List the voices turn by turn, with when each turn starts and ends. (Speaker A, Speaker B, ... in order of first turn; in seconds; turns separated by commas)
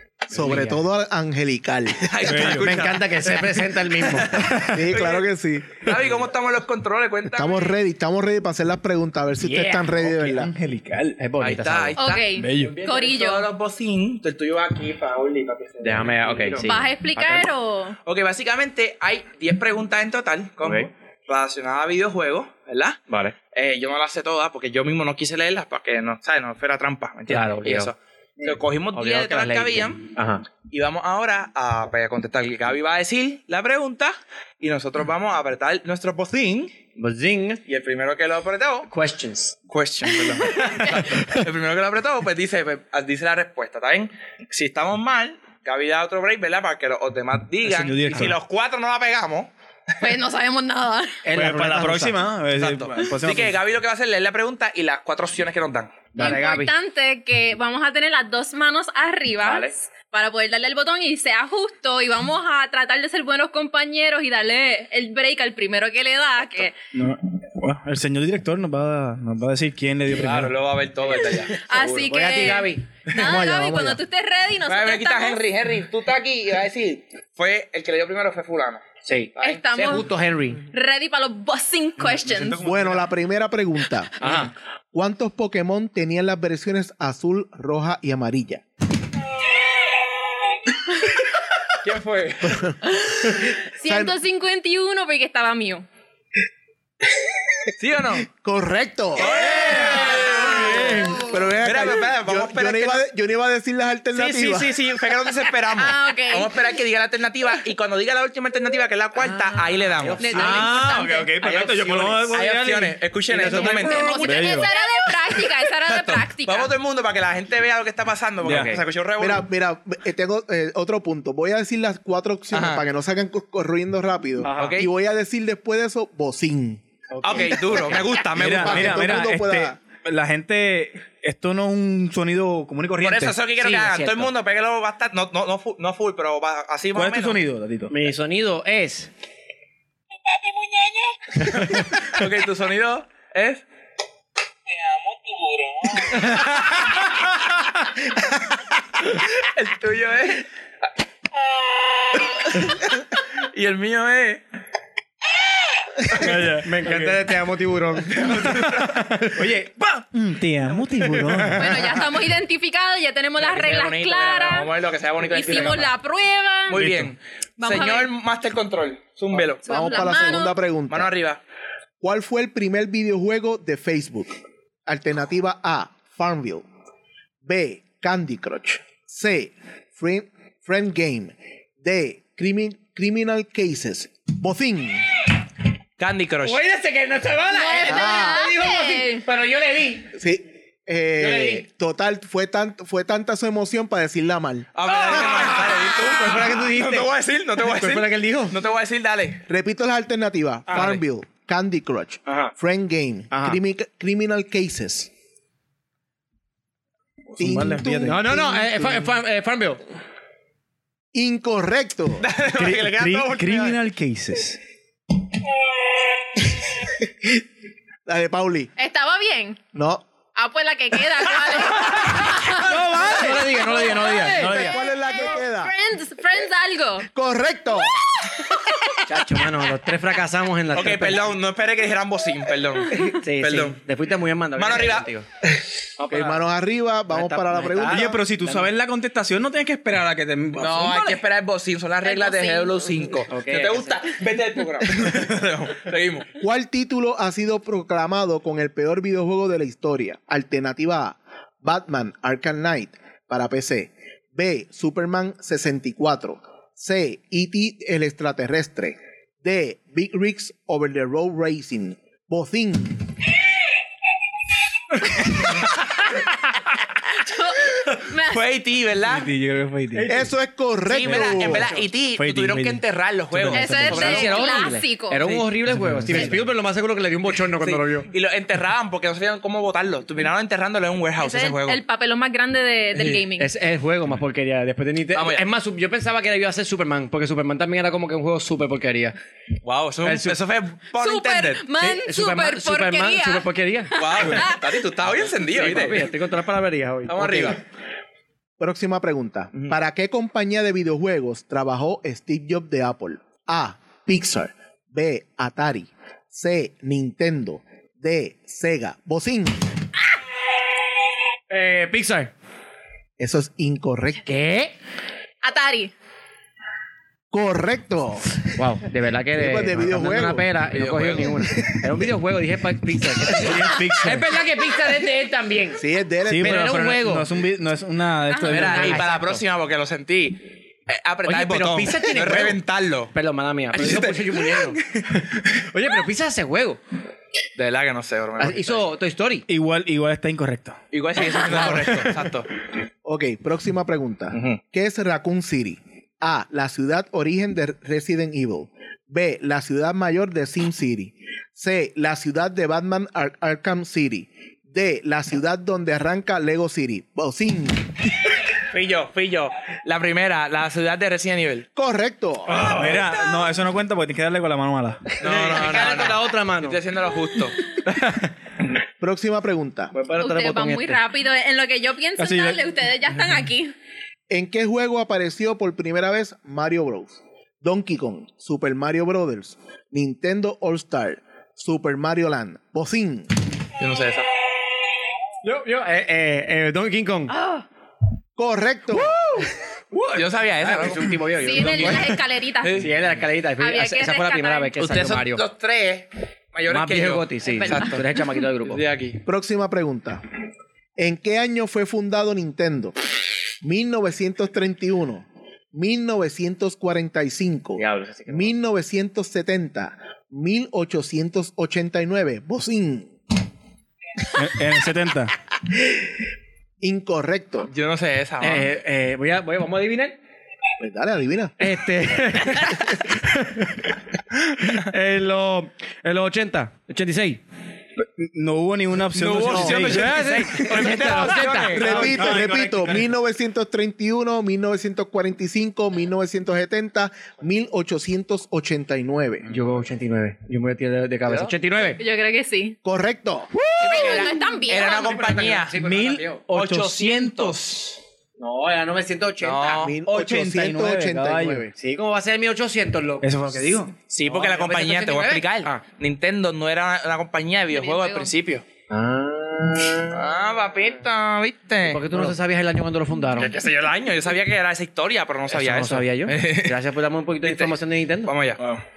Speaker A: 0.3-2.1, Speaker B: 0.3-0.8, Speaker C: 2.0-5.3, Speaker D: 2.2-2.9, Speaker B: 2.5-4.6, Speaker D: 4.3-4.9, Speaker A: 4.7-5.9, Speaker C: 5.8-7.8, Speaker A: 7.3-10.5, Speaker B: 9.4-9.9, Speaker D: 10.0-11.2, Speaker B: 11.2-12.0, Speaker C: 11.4-16.7, Speaker E: 12.0-13.4, Speaker D: 12.4-12.8, Speaker B: 15.8-17.5, Speaker E: 16.6-18.0, Speaker C: 18.1-23.0, Speaker B: 20.6-20.9, Speaker B: 23.1-23.4, Speaker C: 23.5-30.1, Speaker B: 27.3-27.9, Speaker B: 28.9-30.4, Speaker C: 30.7-36.8, Speaker B: 36.9-37.6, Speaker C: 37.7-38.9, Speaker B: 38.9-39.6, Speaker C: 39.7-49.5, Speaker E: 40.7-40.9, Speaker D: 47.6-48.4, Speaker E: 50.0-51.2, Speaker B: 51.3-52.2, Speaker D: 51.3-53.6, Speaker C: 52.5-56.1, Speaker B: 56.1-56.7, Speaker E: 56.2-66.8, Speaker C: 59.5-59.7, Speaker D: 66.9-70.5, Speaker C: 70.1-71.6, Speaker E: 71.6-75.4, Speaker B: 71.7-73.0, Speaker A: 73.1-74.0, Speaker C: 74.7-79.6, Speaker B: 79.0-80.6, Speaker E: 79.4-80.1, Speaker E: 80.7-82.6, Speaker D: 82.1-83.1, Speaker A: 82.6-84.2, Speaker B: 84.2-84.5, Speaker A: 84.9-88.6, Speaker C: 91.8-92.6, Speaker A: 92.5-92.8, Speaker E: 92.9-95.9, Speaker A: 93.8-94.2, Speaker C: 97.8-98.3, Speaker A: 98.3-104.8, Speaker C: 99.2-103.0, Speaker B: 99.5-101.3, Speaker C: 104.1-110.5, Speaker E: 105.8-106.5, Speaker B: 109.2-110.7, Speaker E: 110.2-111.3, Speaker D: 110.4-114.7, Speaker C: 111.4-114.4, Speaker B: 113.3-114.5, Speaker E: 113.8-116.7, Speaker C: 115.8-119.5, Speaker D: 118.4-118.8, Speaker B: 118.4-118.8, Speaker A: 119.2-129.8, Speaker C: 122.5-122.8, Speaker B: 124.4-124.8, Speaker C: 124.6-124.9, Speaker B: 127.1-127.9, Speaker C: 127.2-129.1, Speaker D: 128.3-133.4, Speaker C: 133.0-137.4, Speaker B: 133.6-134.3, Speaker D: 136.9-137.9, Speaker B: 137.9-139.1, Speaker C: 140.3-143.6, Speaker C: 144.7-146.5, Speaker C: 149.3-150.4, Speaker C: 152.1-154.4, Speaker D: 156.2-157.3, Speaker B: 156.6-159.3, Speaker C: 158.2-158.9, Speaker D: 158.3-161.9, Speaker B: 160.9-161.5, Speaker E: 161.6-164.7, Speaker C: 163.4-165.9, Speaker E: 165.2-166.8, Speaker C: 166.7-169.7, Speaker D: 166.7-167.2, Speaker E: 167.6-168.1, Speaker A: 169.6-171.1, Speaker E: 169.7-170.6, Speaker C: 170.9-171.4, Speaker A: 172.0-176.7, Speaker A: 177.4-185.1, Speaker C: 186.0-186.6, Speaker B: 186.4-190.1, Speaker E: 187.5-189.2, Speaker A: 187.9-188.4, Speaker A: 190.1-195.5, Speaker B: 191.2-191.6, Speaker C: 194.8-199.4, Speaker B: 194.9-198.6, Speaker A: 199.5-205.1, Speaker C: 200.7-201.0, Speaker B: 202.3-202.5, Speaker B: 203.3-203.6, Speaker D: 207.3-208.2, Speaker A: 207.4-209.1, Speaker B: 208.0-209.8, Speaker A: 211.1-212.3, Speaker C: 212.2-213.8, Speaker D: 212.5-214.6, Speaker A: 218.1-218.7, Speaker E: 218.8-219.6, Speaker A: 219.7-220.0, Speaker E: 220.3-222.7, Speaker D: 222.6-223.6, Speaker B: 223.0-224.8, Speaker E: 223.7-227.1, Speaker A: 224.4-225.7, Speaker A: 227.1-228.0, Speaker B: 229.1-231.3, Speaker C: 230.7-233.8, Speaker B: 233.0-235.2, Speaker C: 234.6-235.1, Speaker B: 236.0-236.4, Speaker A: 236.1-238.2, Speaker B: 237.1-238.7, Speaker D: 237.9-241.2, Speaker C: 240.6-246.3, Speaker E: 242.0-242.9, Speaker B: 243.3-244.0, Speaker A: 246.4-263.1, Speaker E: 267.2-268.4, Speaker C: 268.3-269.3, Speaker D: 269.1-270.1, Speaker B: 269.9-270.3, Speaker A: 270.1-271.7, Speaker C: 270.9-274.7, Speaker D: 271.1-274.1, Speaker E: 273.5-275.2, Speaker B: 273.9-278.1, Speaker C: 275.2-275.5, Speaker D: 275.7-276.4, Speaker C: 277.6-281.8, Speaker E: 281.2-283.5, Speaker B: 283.1-289.2, Speaker C: 285.1-285.5, Speaker C: 289.6-291.7, Speaker B: 290.0-290.4, Speaker E: 291.0-294.6, Speaker B: 291.8-294.4, Speaker C: 294.0-296.1, Speaker B: 295.5-297.6, Speaker C: 297.1-297.6, Speaker A: 298.6-309.7, Speaker B: 311.5-312.3, Speaker A: 313.2-314.2, Speaker B: 314.3-314.7, Speaker E: 315.4-315.9, Speaker A: 317.3-318.4, Speaker B: 318.6-325.8, Speaker A: 319.3-320.5, Speaker C: 320.7-321.4, Speaker D: 323.3-324.3, Speaker A: 325.8-326.9, Speaker D: 326.3-329.1, Speaker B: 326.4-327.3, Speaker E: 328.3-328.7, Speaker C: 328.5-333.1, Speaker B: 328.5-329.4, Speaker B: 331.2-332.6, Speaker B: 333.1-336.8, Speaker C: 333.8-334.1, Speaker C: 337.6-338.9, Speaker B: 338.4-339.5, Speaker D: 339.5-340.8, Speaker C: 340.9-342.5, Speaker B: 341.4-342.1, Speaker A: 343.1-358.0, Speaker C: 344.3-344.6, Speaker C: 358.7-361.7, Speaker A: 361.8-362.7, Speaker D: 362.6-365.1, Speaker B: 365.2-366.8, Speaker C: 365.2-367.6, Speaker A: 369.0-369.9, Speaker B: 369.9-371.0, Speaker E: 370.2-373.7, Speaker D: 372.2-372.6, Speaker A: 374.3-383.3, Speaker C: 383.8-384.3, Speaker B: 385.4-387.3, Speaker E: 387.3-387.6, Speaker A: 388.4-389.2, Speaker B: 390.0-392.1, Speaker C: 390.1-391.2, Speaker D: 390.7-390.9, Speaker E: 391.4-392.9, Speaker D: 391.5-392.0, Speaker C: 392.6-392.9, Speaker B: 392.8-395.4, Speaker E: 393.6-394.7, Speaker C: 394.8-398.1, Speaker B: 396.7-398.8, Speaker E: 397.5-398.0, Speaker C: 398.6-399.2, Speaker A: 399.2-400.2, Speaker A: 401.0-402.9, Speaker A: 403.6-413.1, Speaker B: 407.8-408.5, Speaker D: 414.3-415.3, Speaker A: 416.8-417.7, Speaker C: 417.7-418.7, Speaker B: 418.4-420.2, Speaker A: 420.8-421.6, Speaker B: 421.6-423.8, Speaker B: 424.6-427.4, Speaker D: 428.0-430.4, Speaker C: 429.2-432.4, Speaker A: 429.3-430.0, Speaker B: 429.6-432.0, Speaker A: 431.8-439.5, Speaker D: 431.8-433.1, Speaker B: 439.5-442.0, Speaker C: 441.3-441.5, Speaker E: 442.0-442.8, Speaker A: 442.8-443.5, Speaker C: 443.8-445.8, Speaker E: 443.8-445.1, Speaker B: 443.9-446.4, Speaker D: 445.8-448.0, Speaker C: 446.5-447.6, Speaker B: 448.4-449.9, Speaker C: 449.4-450.0, Speaker A: 449.7-451.7, Speaker D: 450.1-451.6, Speaker B: 451.6-455.8, Speaker D: 453.2-453.9, Speaker C: 454.1-458.6, Speaker E: 457.7-458.3, Speaker B: 458.9-460.2, Speaker C: 460.1-462.1, Speaker B: 461.8-463.6, Speaker C: 463.4-466.8, Speaker B: 465.5-468.3, Speaker C: 467.4-467.7, Speaker C: 468.3-468.8